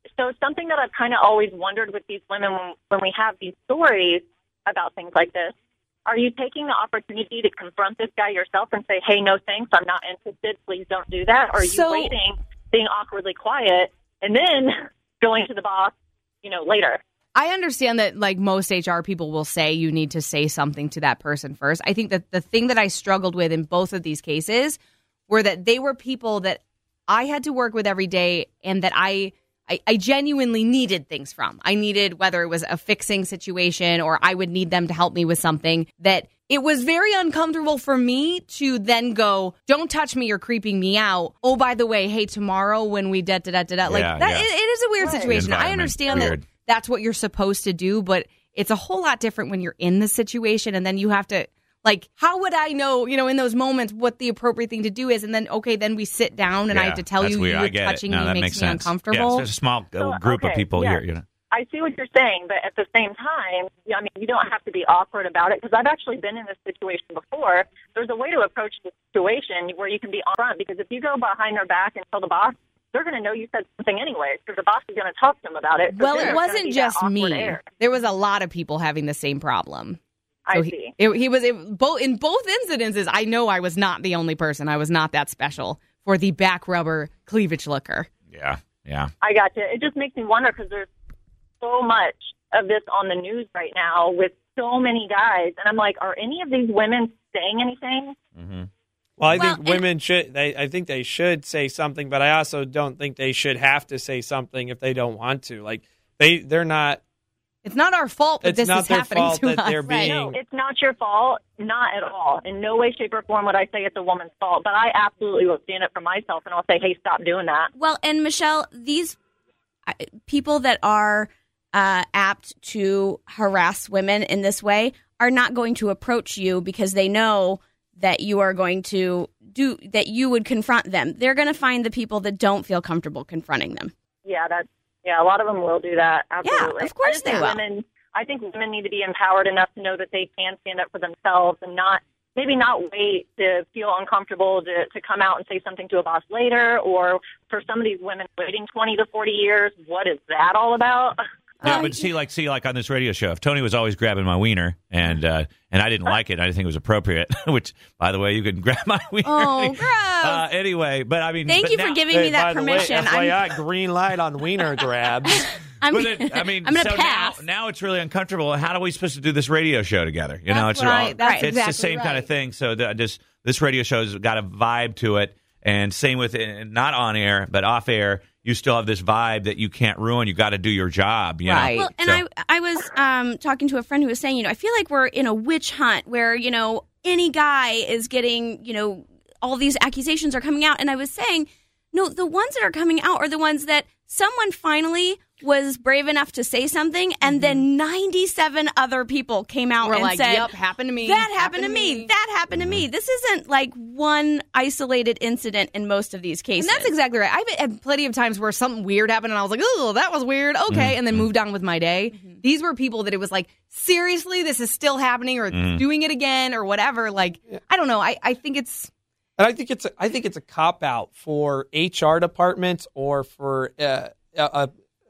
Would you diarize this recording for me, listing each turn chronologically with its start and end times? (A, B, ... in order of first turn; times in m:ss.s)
0:00.2-0:05.5 A
0:06.1-0:15.9 A
0:11.6-0:12.2 B
0:16.4-0:17.0 A
0:17.4-0:24.8 B
0:25.3-0:59.4 B
0:43.8-0:44.5 C
0:45.0-0:45.3 A
0:45.3-0:46.5 C
0:56.7-1:01.2 C
1:00.0-1:17.6 A
1:16.0-1:20.0 B
1:20.5-1:20.9 A
1:20.5-1:28.1 B
1:28.3-1:29.1 C
1:29.2-1:30.9 A
1:31.6-1:38.2 A
1:38.4-1:38.7 C
1:39.2-1:47.0 D
1:39.3-1:39.8 E
1:47.6-1:50.0 B
1:48.4-1:50.4 D
1:49.8-1:50.1 E
1:50.0-1:57.7 A
1:57.8-1:59.2 E
1:59.9-2:13.9 E
2:14.2-2:31.2 A
2:16.4-2:17.6 E
2:31.6-2:32.0 B
2:31.6-2:42.1 C
2:39.2-2:40.4 B
2:41.4-2:43.6 E
2:42.1-2:45.4 D
2:45.2-2:47.4 E
2:45.9-3:02.2 C
2:50.5-2:52.3 B
2:51.2-2:51.5 E
3:01.5-3:01.9 B
3:01.6-3:26.9 E
3:17.2-3:17.6 B
3:19.8-3:22.1 B
3:22.5-3:22.9 C
3:26.6-3:38.9 B
3:30.7-3:31.3 C
3:32.1-3:32.4 E
3:35.5-3:35.8 C
3:39.4-3:44.7 D